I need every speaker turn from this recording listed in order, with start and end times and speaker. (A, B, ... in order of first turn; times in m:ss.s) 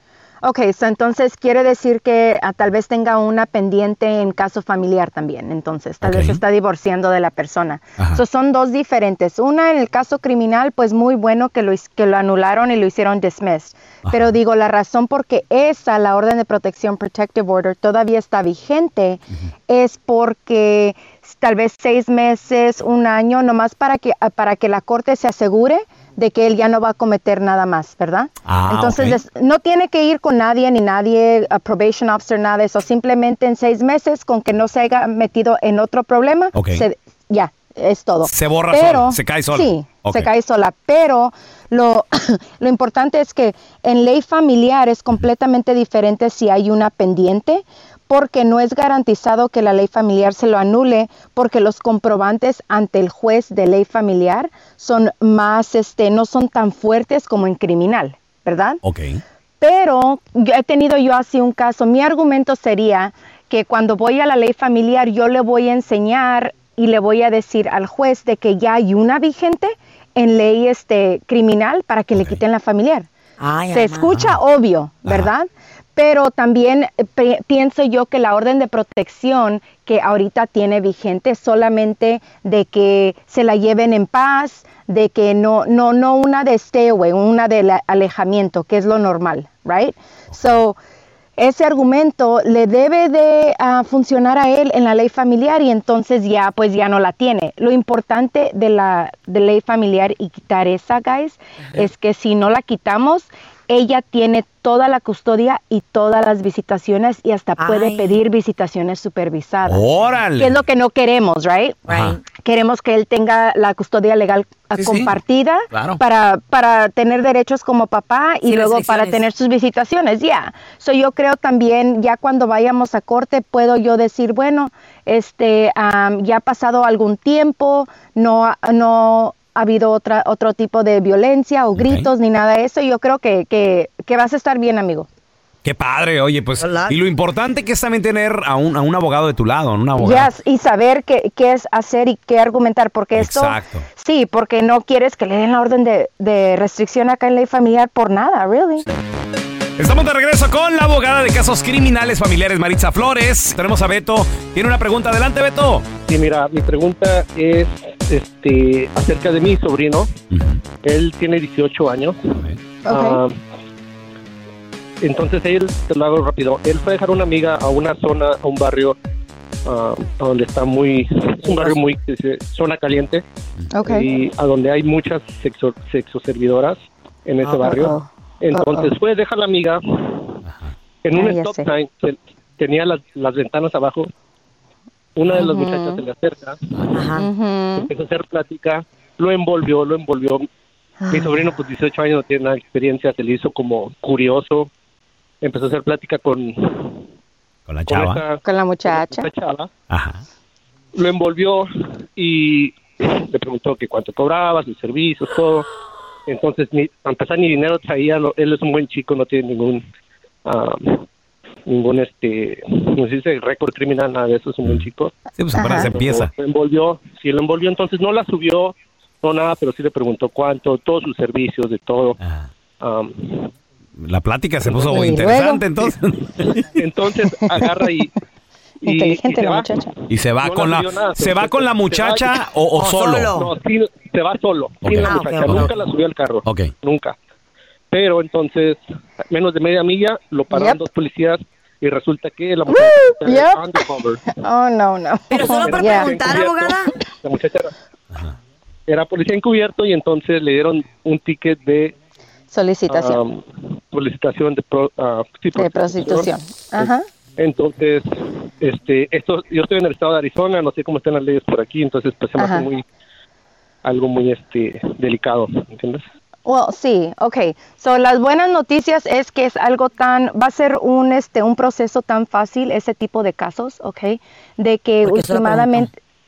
0:00.4-0:58.8 A
0:06.0-0:06.4 B
0:14.0-0:14.4 B
0:28.4-0:29.2 B
0:36.5-0:36.8 B
0:38.2-0:40.3 B
0:58.8-0:59.2 B
0:59.6-1:13.1 A
1:13.4-1:14.2 C
1:13.7-1:30.8 A
1:31.4-1:49.8 A
1:47.6-1:48.2 C
1:49.6-1:50.6 B
1:50.4-2:15.1 A
1:51.9-1:52.2 B
1:54.8-1:55.1 B
1:55.7-1:56.0 B
1:58.4-1:59.3 C
2:11.8-2:12.1 B
2:15.6-2:20.3 B
2:16.6-2:17.0 C
2:20.0-2:28.8 A
2:23.1-2:23.8 B
2:29.8-2:35.8 B
2:36.1-2:40.1 D
2:40.3-2:40.6 B
2:40.8-2:42.2 D
2:42.8-2:43.2 A
2:42.9-2:43.3 D
2:45.0-2:49.0 D
2:49.7-2:53.2 D
2:51.4-2:51.8 A
2:53.7-2:54.1 A
2:53.9-2:59.8 D
2:57.4-2:57.8 C
2:57.6-2:58.9 A
3:00.4-3:00.7 B
3:01.0-3:04.1 D
3:01.2-3:01.6 A
3:05.2-3:06.6 D
3:05.3-3:06.0 A
3:06.9-3:07.2 C
3:07.1-3:07.9 A
3:07.8-3:10.5 D
3:11.0-3:11.5 A
3:11.1-3:14.7 D
3:15.4-3:16.5 D
3:17.7-3:18.2 B
3:17.9-3:19.7 D
3:18.4-3:19.3 A
3:19.9-3:20.2 B
3:21.0-3:21.6 D
3:22.2-3:25.7 D
3:26.3-3:29.8 D
3:30.4-3:31.0 D
3:31.7-3:35.1 D
3:35.4-3:36.3 B
3:35.5-3:35.9 A
3:35.8-3:42.2 D
3:42.8-3:43.5 D
3:44.0-3:46.6 B
3:44.8-3:45.9 A
3:46.8-3:48.1 D
3:48.8-3:49.7 D
3:48.8-3:49.9 A
3:50.1-3:53.3 B
3:50.4-3:52.3 D
3:52.8-3:53.5 C
3:53.4-3:57.1 D
3:54.8-3:55.7 B
3:55.0-3:55.7 C
3:56.4-3:56.7 B
3:57.9-3:58.8 D
3:59.3-4:04.2 D
4:00.5-4:00.8 A
4:02.7-4:06.3 A
4:05.3-4:06.9 C
4:05.6-4:07.7 D
4:08.9-4:11.9 D
4:12.5-4:13.2 A
4:12.9-4:13.4 D
4:13.9-4:16.9 D
4:15.5-4:17.1 A
4:17.4-4:18.0 D
4:18.6-4:22.8 D
4:22.4-4:22.7 A
4:23.8-4:26.0 D
4:26.4-4:35.9 A
4:35.0-4:35.9 C